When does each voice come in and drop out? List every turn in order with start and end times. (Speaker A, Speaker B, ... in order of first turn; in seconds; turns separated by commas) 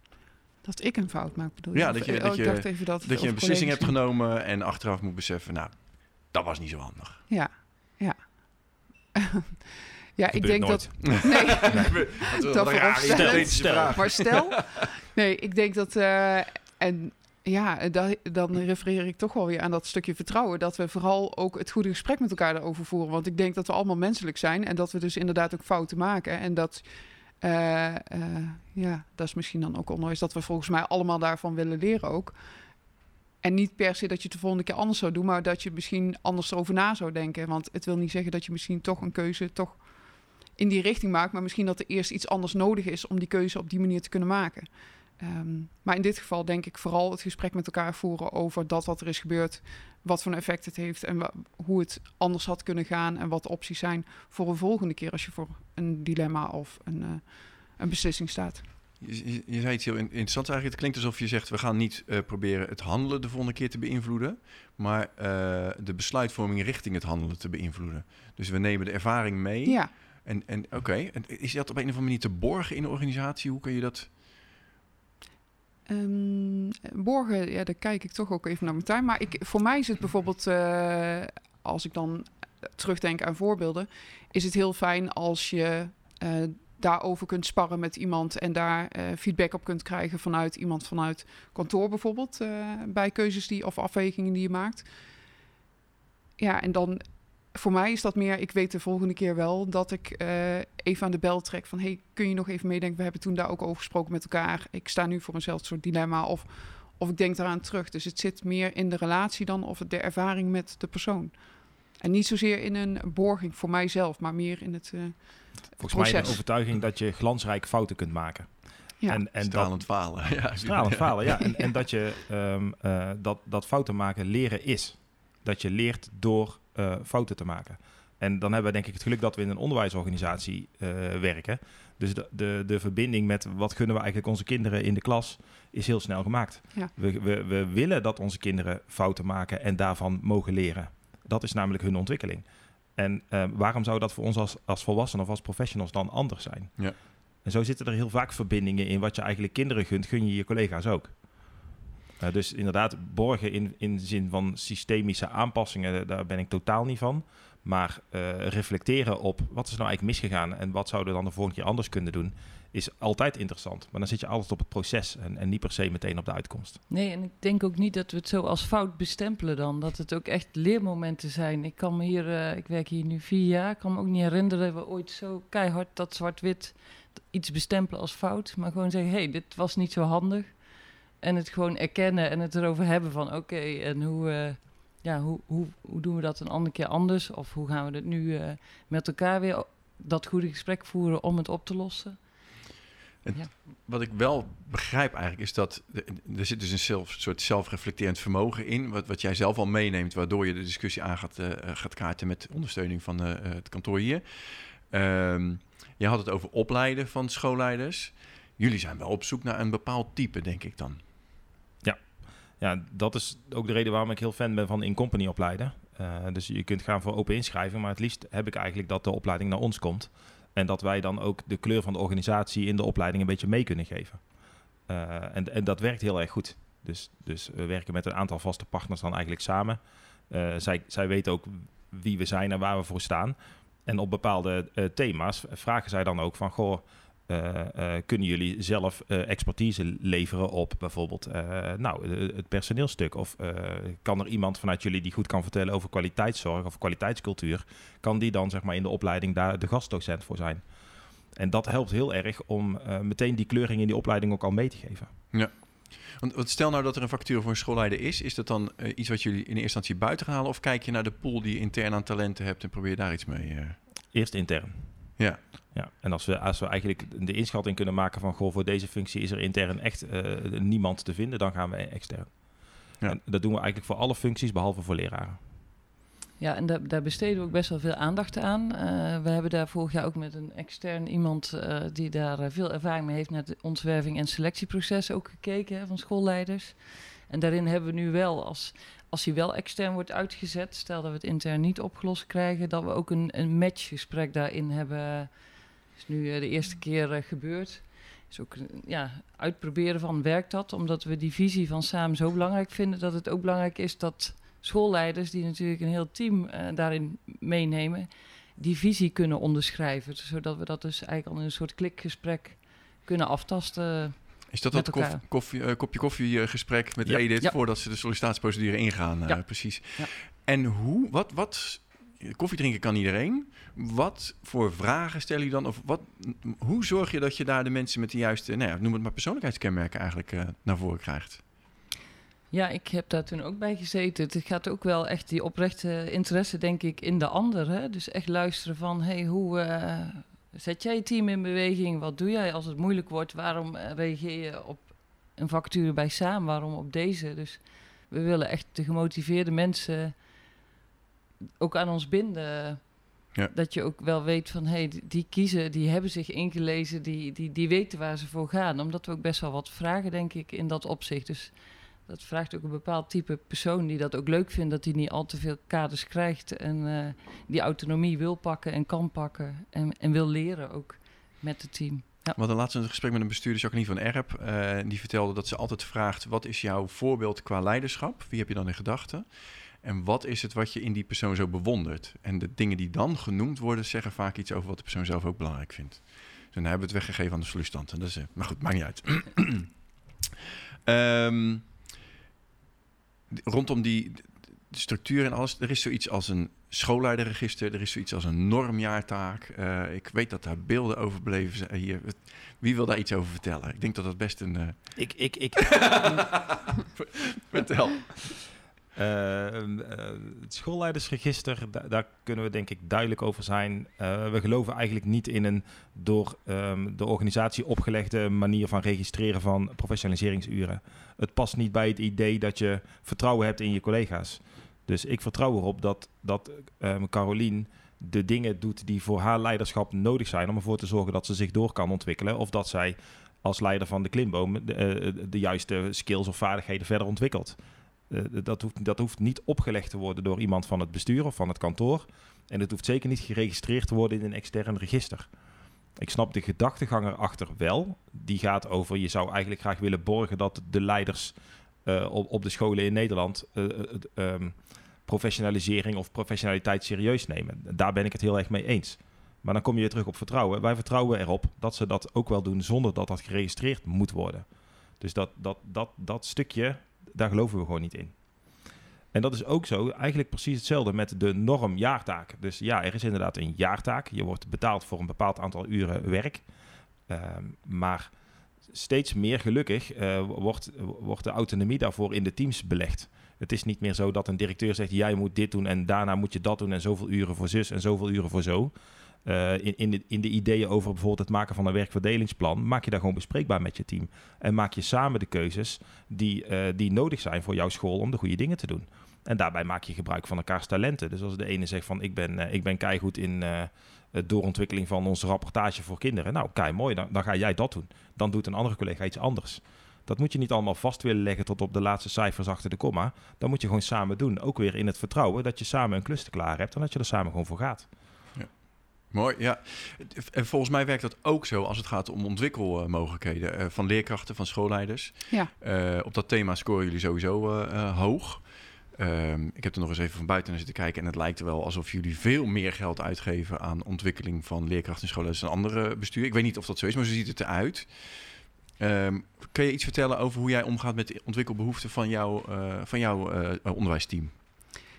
Speaker A: 0.6-4.0, Speaker B: 1.7-7.2, Speaker A: 7.3-32.4, Speaker C: 10.3-11.9, Speaker B: 11.1-14.6, Speaker C: 12.6-14.2, Speaker A: 33.4-58.6, Speaker B: 59.0-74.1, Speaker A: 69.7-69.9, Speaker A: 75.9-94.9, Speaker A: 96.4-116.4, Speaker C: 115.8-146.9, Speaker B: 119.4-121.2, Speaker C: 147.4-166.8, Speaker D: 166.9-192.5, Speaker B: 193.2-211.0, Speaker C: 212.6-224.2, Speaker C: 224.9-229.8, Speaker C: 230.3-250.6, Speaker C: 251.3-255.1, Speaker B: 255.3-263.8, Speaker C: 264.1-265.1, Speaker C: 265.7-275.4, Speaker D: 276.4-315.2, Speaker B: 314.5-331.5, Speaker D: 319.3-320.1, Speaker D: 332.5-350.3, Speaker D: 351.6-372.4, Speaker B: 372.4-389.8, Speaker B: 390.9-391.8, Speaker B: 393.3-405.1, Speaker C: 405.0-406.4, Speaker B: 405.8-408.4, Speaker C: 408.9-437.6, Speaker C: 438.1-445.3, Speaker C: 446.0-464.5, Speaker C: 465.0-468.2, Speaker C: 469.1-476.4, Speaker C: 477.1-478.1, Speaker C: 478.7-488.7, Speaker C: 489.2-517.9, Speaker B: 518.3-544.4